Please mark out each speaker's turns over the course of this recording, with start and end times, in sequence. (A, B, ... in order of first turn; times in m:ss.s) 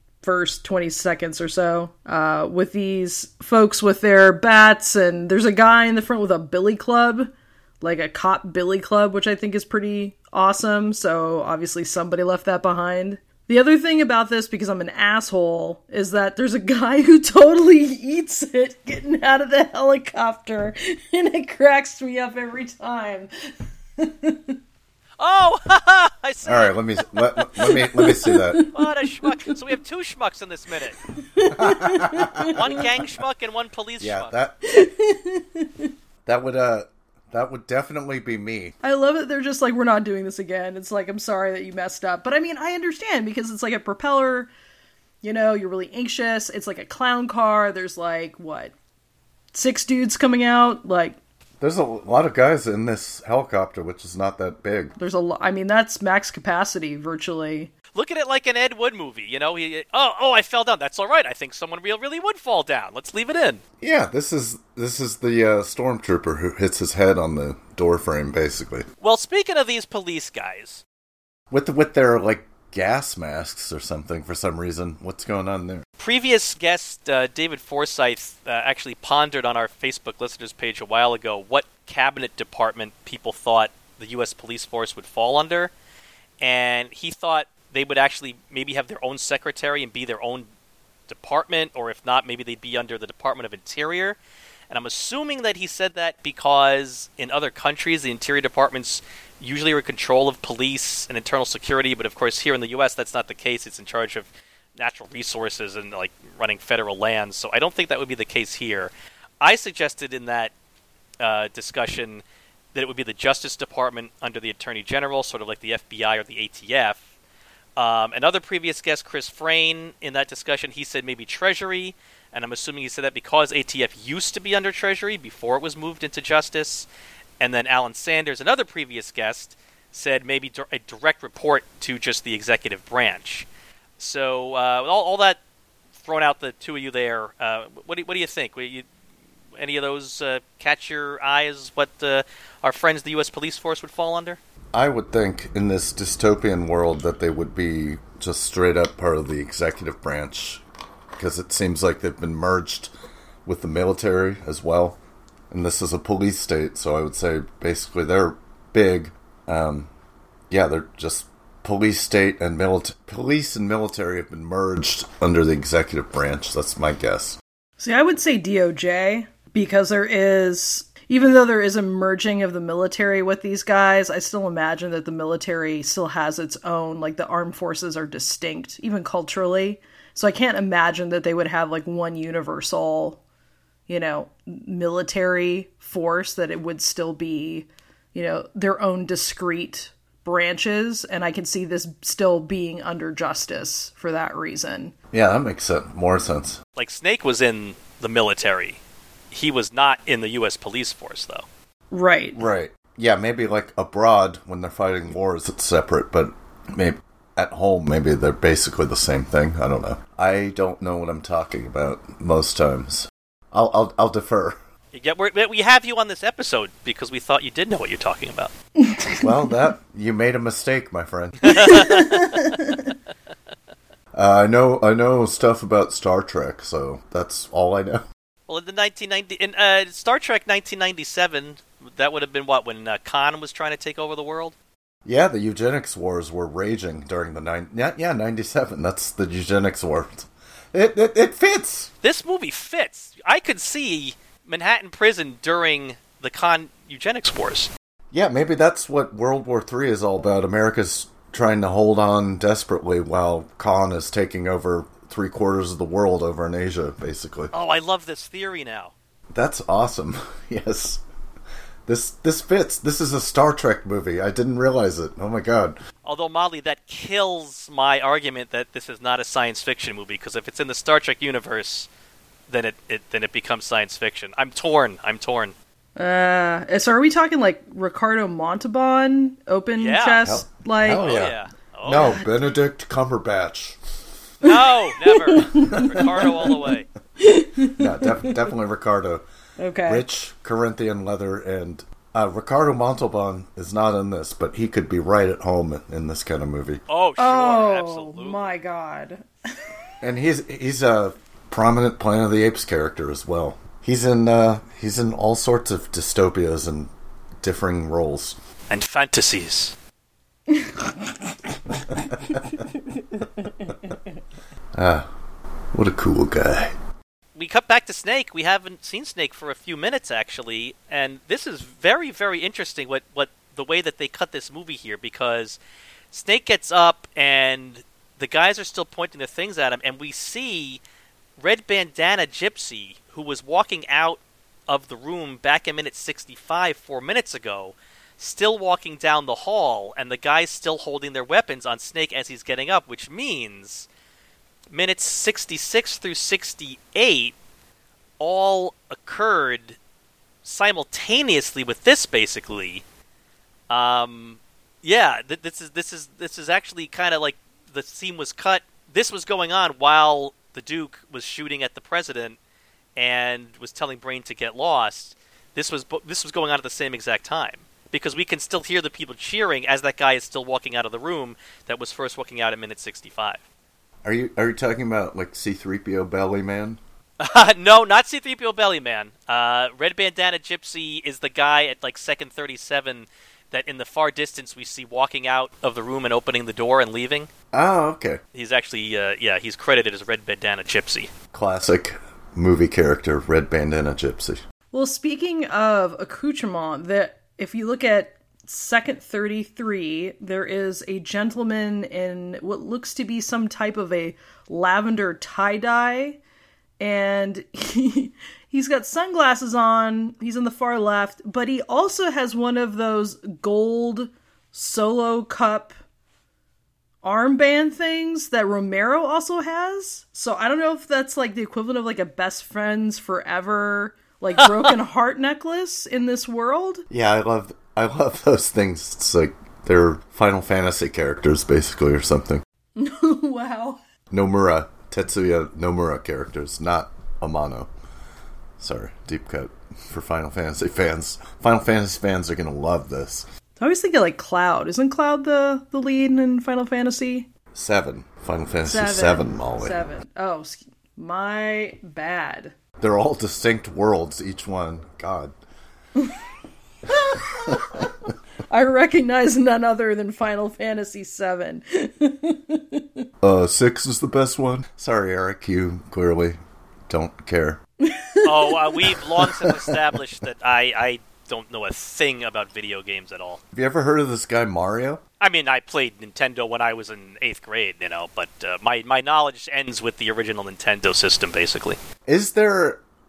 0:00.2-0:23.3 A
0:24.0-0:24.6 A
0:25.2-0:26.7 B
0:26.4-0:28.6 C
0:27.4-0:29.6 A
0:28.7-0:31.0 B
0:31.1-0:32.5 A
0:31.5-0:32.9 C
0:32.4-0:34.3 B
0:34.0-0:34.7 C
0:34.6-0:35.9 A
0:36.2-0:38.7 C
0:38.8-0:44.5 A
0:45.2-0:48.7 A
0:49.5-0:51.2 A
0:51.6-0:54.9 C
0:55.0-0:57.7 A
0:57.9-1:03.6 B
1:03.8-1:08.8 C
1:09.0-1:10.8 B
1:11.5-1:15.8 C
1:16.0-1:25.7 B
1:26.4-1:30.5 B
1:31.1-1:34.2 B
1:34.7-1:50.5 B
1:51.2-1:52.2 B
1:52.7-1:57.0 B
1:57.8-2:06.9 B
2:07.4-2:13.5 B
2:14.0-2:15.4 B
2:16.0-2:18.8 B
2:19.6-2:24.4 B
2:24.7-2:30.6 C
2:31.2-2:32.9 C
2:33.4-2:35.0 C
2:35.5-2:39.9 C
2:40.5-2:47.4 C
2:47.8-3:03.2 A
3:03.9-3:14.9 A
3:15.1-3:16.6 C
3:16.8-3:18.8 B
3:19.3-3:21.4 B
3:21.9-3:22.4 A
3:22.3-3:34.6 C
3:34.9-3:38.5 B
3:38.8-3:39.6 A
3:39.2-3:41.7 C
3:41.4-3:42.6 B
3:41.6-3:42.7 A
3:44.1-3:48.0 C
3:48.5-3:54.5 B
3:55.0-4:01.9 C
4:02.0-4:07.7 B
4:08.1-4:17.5 C
4:17.5-4:18.9 B
4:19.3-4:21.0 C
4:21.8-4:25.8 C
4:26.0-4:31.9 B
4:32.5-4:35.5 B
4:36.0-4:41.1 A
4:39.8-4:40.2 B
4:40.2-4:43.8 C
4:41.0-4:42.2 B
4:41.9-4:42.4 A
4:44.4-4:46.9 B
4:44.5-4:46.5 A
4:45.4-4:46.1 C
4:47.2-4:48.3 A
4:47.8-4:49.2 C
4:49.6-4:50.0 A
4:49.8-4:56.8 C
4:56.9-4:58.5 B
4:57.2-4:59.8 A
5:00.0-5:08.4 C
5:08.7-5:09.7 B
5:10.5-5:10.9 A
5:14.7-5:15.1 C
5:15.7-5:16.7 C
5:17.3-5:25.6 B
5:26.1-5:30.8 B
5:31.4-5:43.9 B
5:44.7-5:47.3 B
5:48.2-5:49.8 B
5:50.4-5:52.8 B
5:53.7-6:02.4 B
6:03.0-6:13.4 B
6:14.0-6:16.8 C
6:17.2-6:27.3 B
6:27.5-6:28.2 C
6:28.3-6:31.1 B
6:31.3-6:34.4 C
6:34.7-6:46.2 A
6:46.8-6:55.7 A
6:57.0-7:06.8 A
7:06.9-7:12.4 C
7:12.8-7:13.8 A
7:14.1-7:17.7 C
7:18.6-7:23.3 C
7:23.6-7:27.3 A
7:27.5-7:29.8 C
7:28.6-7:32.5 A
7:32.8-7:35.3 C
7:36.9-7:37.9 A
7:37.4-7:37.9 C
7:38.5-7:43.0 A
7:43.2-7:47.6 C
7:47.8-7:49.7 A
7:48.2-7:53.4 B
7:53.5-7:55.0 C
7:55.2-8:01.8 B
8:02.0-8:02.8 C